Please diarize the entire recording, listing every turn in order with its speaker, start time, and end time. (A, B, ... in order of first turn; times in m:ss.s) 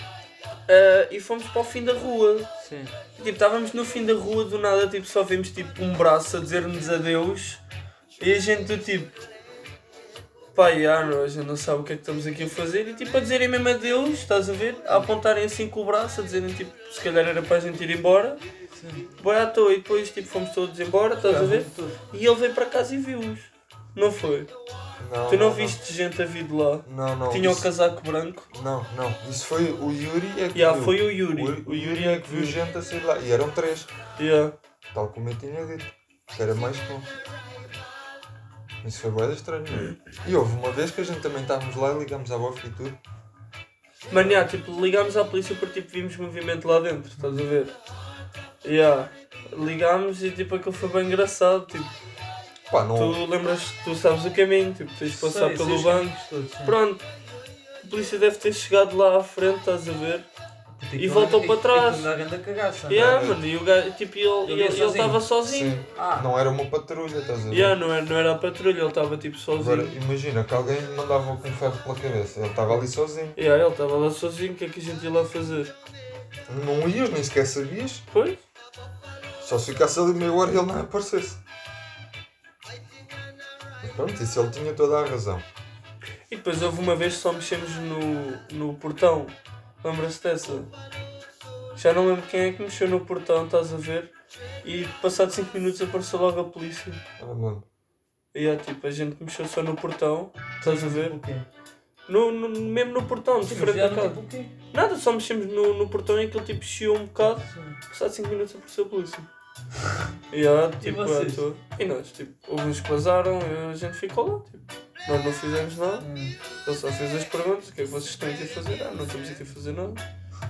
0:00.7-0:02.5 A
0:02.6-0:02.9 B
0:03.2-0:07.6 A
0:08.2-0:09.2 A
0:10.5-0:18.4 A
0:18.8-0:19.1 B
0:19.2-0:24.5 A
0:21.2-0:22.0 B
0:25.0-0:25.8 C
0:25.3-0:28.5 A
0:26.8-0:27.7 C
0:28.5-0:33.9 C
0:30.5-0:32.6 A
0:34.2-0:34.5 A
0:34.9-0:37.1 C
0:38.8-0:43.0 C
0:44.1-0:47.7 A
0:47.2-0:47.4 B
0:48.6-0:51.9 A
0:52.7-0:53.2 C
0:52.9-0:56.1 A
0:55.1-0:56.8 B
0:56.6-0:57.0 A
0:57.8-1:00.2 A
1:00.7-1:03.2 B
1:01.0-1:02.1 A
1:02.9-1:05.8 A
1:02.9-1:03.4 C
1:04.4-1:05.2 B
1:05.4-1:07.7 C
1:05.9-1:06.3 B
1:07.5-1:10.0 A
1:09.6-1:13.4 C
1:13.4-1:15.7 A
1:16.5-1:18.0 C
1:18.1-1:18.4 A
1:19.4-1:21.4 C
1:23.8-1:25.4 C
1:26.3-1:30.7 A
1:31.8-1:34.1 A
1:34.6-1:37.0 A
1:37.2-1:37.6 C
1:38.3-1:41.2 A
1:40.6-1:41.5 B
1:42.1-1:44.2 A
1:43.4-1:44.5 B
1:44.7-1:49.3 A
1:47.2-1:47.8 B
1:50.3-1:56.0 A
1:50.8-1:51.4 B
1:56.0-1:56.3 B
1:56.6-2:00.0 A